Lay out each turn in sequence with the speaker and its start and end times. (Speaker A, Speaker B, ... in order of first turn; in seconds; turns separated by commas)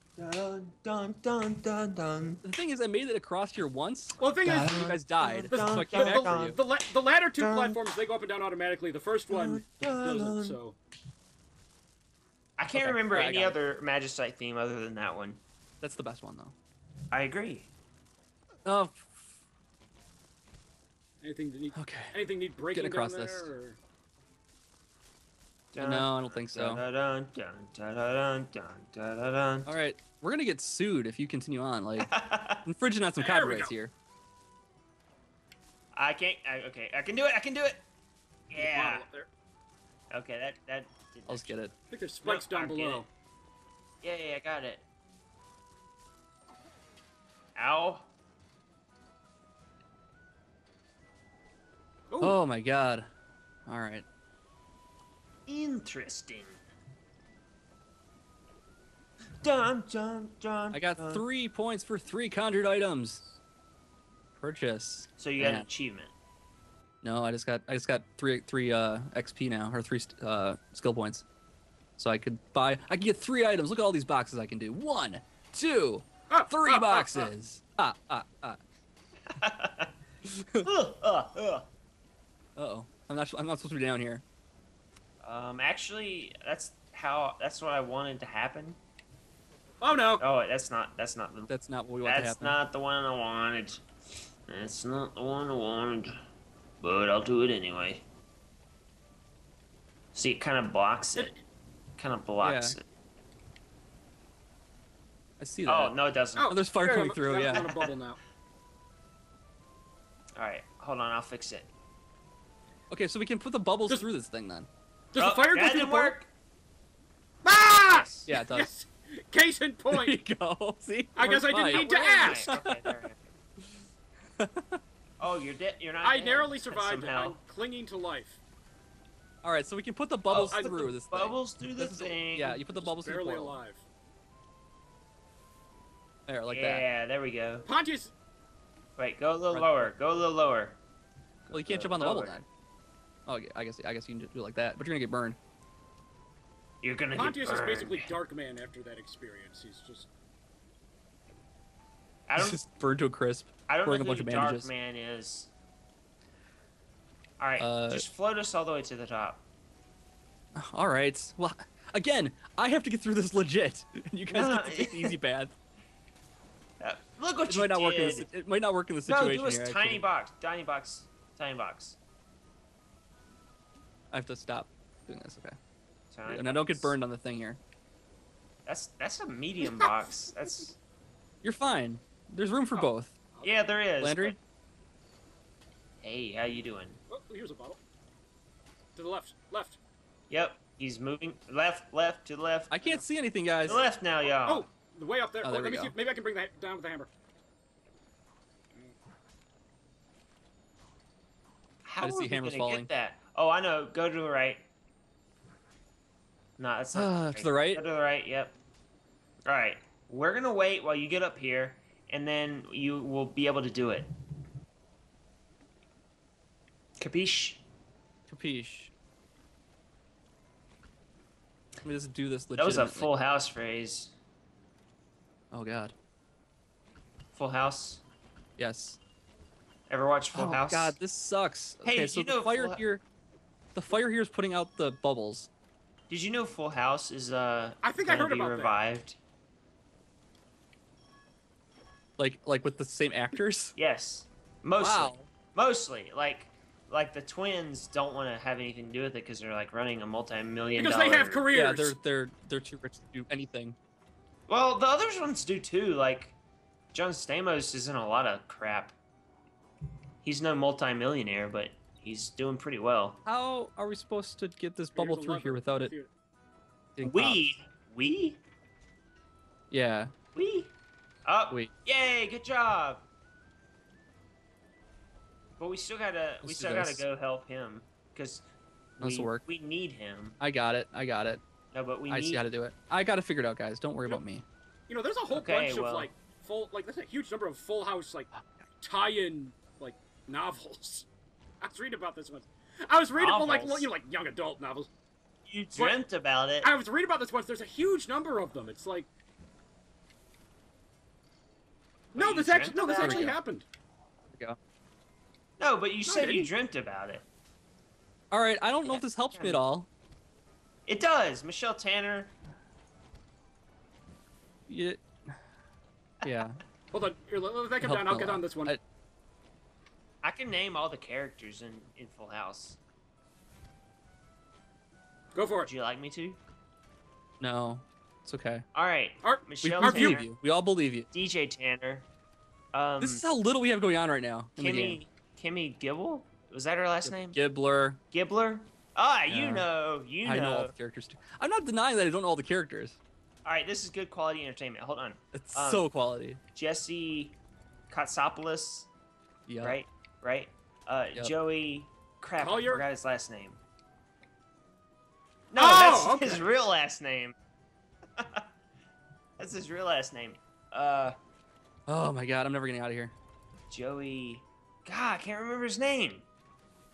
Speaker A: 0.2-2.4, Speaker B: 2.4-6.5, Speaker C: 4.2-4.8, Speaker A: 4.4-6.5, Speaker C: 5.5-10.8, Speaker A: 7.4-7.8, Speaker A: 9.3-10.6, Speaker A: 12.6-15.4, Speaker B: 12.7-13.6, Speaker B: 15.8-16.5, Speaker A: 17.1-17.7, Speaker B: 18.6-19.4, Speaker C: 21.2-23.8, Speaker B: 21.7-22.1, Speaker B: 22.7-23.5, Speaker A: 25.7-29.7, Speaker B: 25.8-26.8, Speaker B: 29.6-32.1, Speaker A: 32.0-32.6, Speaker B: 32.6-33.9, Speaker C: 33.2-33.7, Speaker A: 35.9-37.8, Speaker A: 38.5-39.0, Speaker C: 38.6-39.3, Speaker A: 40.1-41.6, Speaker B: 41.3-41.7, Speaker C: 41.9-43.1, Speaker A: 42.2-43.0, Speaker A: 44.0-44.8, Speaker A: 47.5-48.1, Speaker C: 52.1-52.4, Speaker B: 52.2-53.1, Speaker B: 53.7-54.0, Speaker A: 55.5-56.6, Speaker A: 59.4-61.2, Speaker B: 60.7-63.2, Speaker B: 64.3-65.7, Speaker A: 65.2-66.1, Speaker B: 67.0-71.2, Speaker B: 72.0-78.6, Speaker C: 76.3-77.3, Speaker A: 79.3-79.9, Speaker B: 80.3-80.6, Speaker A: 80.6-81.7, Speaker B: 82.5-84.2, Speaker A: 85.2-88.8, Speaker C: 89.8-90.2, Speaker A: 90.2-91.5, Speaker B: 91.5-92.6, Speaker A: 92.0-93.8, Speaker A: 94.5-96.1, Speaker A: 96.8-98.0, Speaker A: 100.1-101.3, Speaker A: 102.0-102.8, Speaker B: 102.4-102.8, Speaker B: 105.4-107.7, Speaker A: 105.7-106.5, Speaker C: 106.4-108.2, Speaker A: 107.3-107.9, Speaker A: 110.3-111.7, Speaker B: 112.9-114.7, Speaker C: 115.1-116.1, Speaker A: 115.2-116.3, Speaker C: 117.4-120.2, Speaker A: 117.9-118.3, Speaker B: 118.3-118.7, Speaker B: 119.9-122.9, Speaker C: 121.1-122.5, Speaker A: 121.5-123.2, Speaker B: 124.4-124.8, Speaker A: 125.2-127.4, Speaker C: 126.0-128.4, Speaker B: 129.4-133.6, Speaker A: 130.3-132.7, Speaker C: 130.5-130.8, Speaker C: 132.7-133.8, Speaker B: 136.3-136.8, Speaker A: 136.5-137.7, Speaker C: 137.7-138.1, Speaker A: 139.0-140.8, Speaker B: 139.5-139.9, Speaker A: 141.4-142.4, Speaker B: 141.5-142.4, Speaker B: 143.2-145.4, Speaker A: 146.8-148.1, Speaker C: 147.1-150.1, Speaker A: 152.3-152.6, Speaker B: 152.4-154.7, Speaker A: 153.7-155.5, Speaker A: 157.4-159.4, Speaker B: 157.6-158.0, Speaker B: 160.6-165.5, Speaker A: 164.3-165.2, Speaker A: 166.8-168.3, Speaker B: 167.5-170.0, Speaker A: 169.1-172.0, Speaker B: 174.1-175.6, Speaker A: 176.1-176.9, Speaker B: 176.3-177.6, Speaker A: 178.7-180.8, Speaker B: 181.4-183.2, Speaker A: 183.4-184.4, Speaker B: 184.0-184.4, Speaker A: 186.0-187.0, Speaker C: 187.1-187.8, Speaker C: 188.9-189.8, Speaker A: 190.3-193.0, Speaker B: 192.7-193.8, Speaker A: 193.6-194.7, Speaker C: 193.7-197.1, Speaker B: 195.4-195.9, Speaker A: 201.8-204.6, Speaker B: 202.0-202.9, Speaker A: 206.6-208.6, Speaker B: 206.9-207.8, Speaker A: 209.4-214.1, Speaker A: 217.0-217.6, Speaker B: 218.3-218.9, Speaker B: 221.8-223.1, Speaker A: 222.6-224.1, Speaker B: 225.5-225.9, Speaker A: 227.3-228.0, Speaker B: 228.6-229.0, Speaker A: 229.9-230.9, Speaker B: 230.3-233.0, Speaker A: 231.8-232.8, Speaker B: 233.7-235.5, Speaker A: 236.1-239.2, Speaker C: 237.8-238.8, Speaker B: 242.2-243.7, Speaker A: 243.8-251.5, Speaker B: 244.8-245.3, Speaker C: 250.8-252.0, Speaker B: 251.5-253.8, Speaker A: 254.5-256.4, Speaker A: 256.9-258.9, Speaker A: 260.2-263.2, Speaker B: 263.2-265.9, Speaker C: 264.9-266.1, Speaker B: 267.0-267.4, Speaker A: 267.0-268.4, Speaker B: 269.7-270.1, Speaker A: 270.3-270.7, Speaker A: 271.2-273.0, Speaker A: 275.6-278.4, Speaker B: 276.4-277.1, Speaker A: 279.0-280.4, Speaker B: 279.0-279.4, Speaker B: 280.4-281.4, Speaker A: 281.7-282.4, Speaker B: 282.1-284.4, Speaker C: 284.9-291.1, Speaker A: 285.3-286.1, Speaker C: 291.6-294.9, Speaker A: 293.1-293.9, Speaker A: 295.4-296.7, Speaker C: 296.6-299.1, Speaker C: 302.1-303.6, Speaker A: 302.1-303.3, Speaker B: 302.9-303.4, Speaker A: 305.6-307.2, Speaker C: 306.0-306.5, Speaker B: 308.3-309.9, Speaker A: 308.8-309.6, Speaker A: 310.9-312.3, Speaker B: 314.7-315.3, Speaker B: 316.2-316.5, Speaker C: 316.9-318.8, Speaker B: 317.8-318.8, Speaker A: 320.2-322.8, Speaker C: 325.3-325.7, Speaker A: 325.6-326.4, Speaker B: 327.4-328.6, Speaker A: 328.7-330.3, Speaker C: 329.2-330.2, Speaker B: 329.6-331.1, Speaker A: 331.1-332.1, Speaker A: 332.7-333.2, Speaker B: 333.0-335.0, Speaker A: 334.6-337.4, Speaker B: 337.0-338.0, Speaker A: 338.1-340.7, Speaker B: 339.3-339.7, Speaker B: 340.2-343.0, Speaker A: 343.4-345.9, Speaker B: 345.3-346.4, Speaker A: 346.5-347.4, Speaker A: 347.9-348.9, Speaker B: 349.5-349.8, Speaker A: 349.6-353.6, Speaker C: 352.4-352.8, Speaker A: 355.5-357.3, Speaker C: 355.6-356.4, Speaker A: 358.2-358.4, Speaker A: 359.4-361.1, Speaker B: 361.9-363.1, Speaker A: 363.7-366.2